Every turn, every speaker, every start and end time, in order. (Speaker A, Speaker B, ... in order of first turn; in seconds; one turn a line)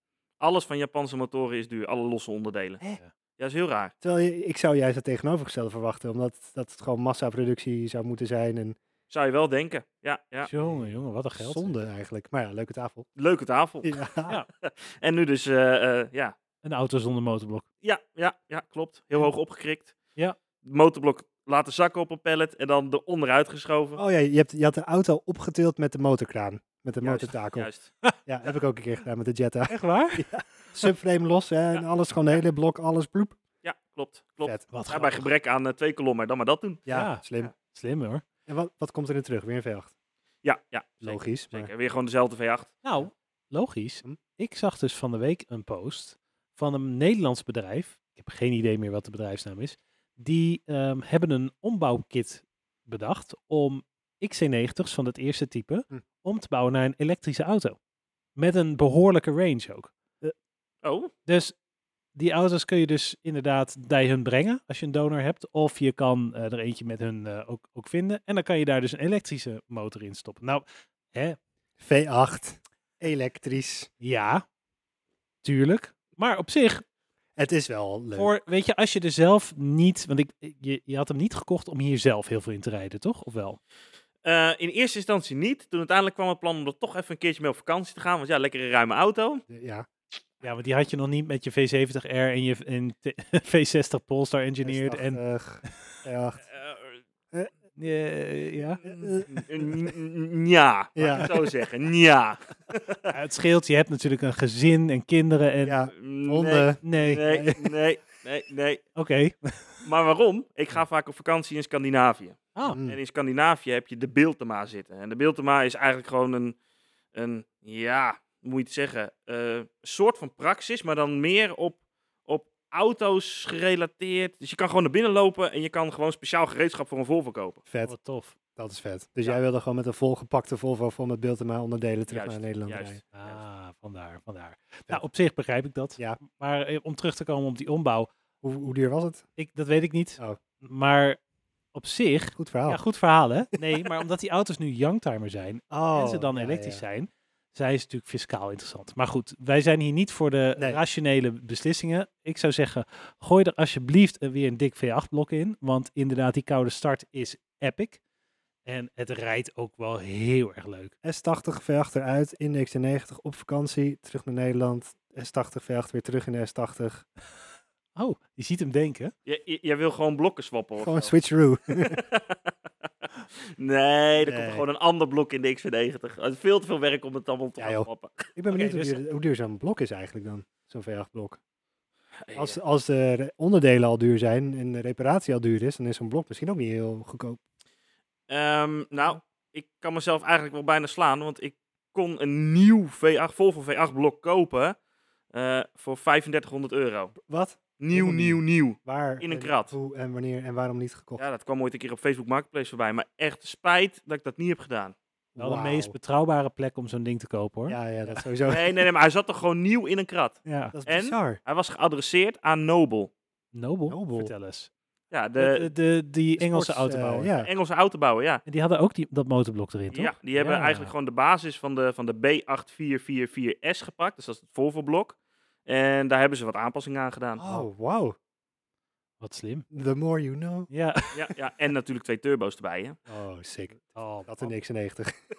Speaker A: 0.4-2.8
Speaker B: 2.8-3.1
Speaker A: 3.4-3.9
Speaker C: 4.0-8.8
Speaker A: 9.1-10.5
Speaker B: 10.4-11.8
Speaker C: 10.6-13.1
Speaker A: 13.2-16.4
Speaker C: 13.8-14.3
Speaker B: 16.6-17.7
Speaker A: 17.8-19.9
Speaker A: 20.6-24.0
Speaker C: 24.0-27.7
Speaker A: 27.0-27.9
Speaker C: 28.3-33.4
Speaker B: 29.7-30.3
Speaker A: 33.6-37.5
Speaker B: 34.7-35.3
Speaker C: 36.9-37.5
Speaker B: 36.9-38.2
Speaker C: 38.5-39.9
Speaker A: 40.4-42.7
Speaker C: 41.0-41.7
Speaker B: 42.8-57.8
Speaker B: 58.4-60.4
Speaker A: 60.8-61.1
Speaker B: 61.3-61.5
Speaker B: 62.1-71.4
Speaker C: 71.8-73.9
Speaker B: 74.0-74.5
Speaker B: 75.4-76.8
Speaker C: 77.4-78.3
Speaker B: 78.2-83.6
Speaker A: 84.2-89.4
Speaker C: 89.5-89.9
Speaker B: 90.4-95.2
Speaker C: 94.6-96.4
Speaker A: 96.5-97.0
Speaker B: 97.8-98.8
Speaker C: 98.8-99.9
Speaker A: 98.8-103.1
Speaker C: 101.0-101.4
Speaker B: 101.0-101.3
Speaker B: 103.1-105.8
Speaker C: 105.6-107.7
Speaker A: 105.9-108.9
Speaker B: 106.8-107.2
Speaker B: 109.0-109.8
Speaker A: 109.8-116.6
Speaker C: 112.7-113.0
Speaker A: 117.1-127.6
Speaker C: 127.7-127.9
Speaker B: 127.8-128.4
Speaker C: 128.6-133.0
Speaker A: 132.1-133.4
Speaker B: 133.1-138.1
Speaker C: 138.4-139.3
Speaker B: 139.4-141.2
Speaker B: 141.7-158.0
Speaker C: 142.4-142.8
Speaker C: 145.7-146.8
Speaker B: 158.7-160.9
Speaker C: 161.0-167.1
Speaker B: 168.0-169.1
Speaker A: 169.3-171.1
Speaker C: 170.8-172.0
Speaker A: 171.8-172.5
Speaker A: 173.6-179.0
Speaker C: 174.2-174.7
Speaker C: 177.6-181.4
Speaker A: 182.2-182.6
Speaker C: 182.3-187.4
Speaker A: 188.3-194.8
Speaker A: 195.3-197.2
Speaker C: 197.2-201.2
Speaker A: 197.8-199.8
Speaker A: 201.2-204.9
Speaker C: 205.4-205.9
Speaker B: 205.4-208.2
Speaker C: 207.7-208.8
Speaker A: 208.5-213.1
Speaker B: 210.5-210.8
Speaker C: 210.7-211.4
Speaker B: 213.5-214.7
Speaker C: 213.9-214.3
Speaker A: 215.1-215.7
Speaker B: 215.4-217.3
Speaker C: 216.4-217.5
Speaker A: 217.4-218.4
Speaker B: 218.5-220.9
Speaker A: 219.9-227.6
Speaker C: 227.4-228.2
Speaker B: 229.2-229.7
Speaker C: 229.7-230.7
Speaker B: 230.7-231.2
Speaker A: 231.1-233.0
Speaker C: 233.1-235.1
Speaker B: 233.9-234.5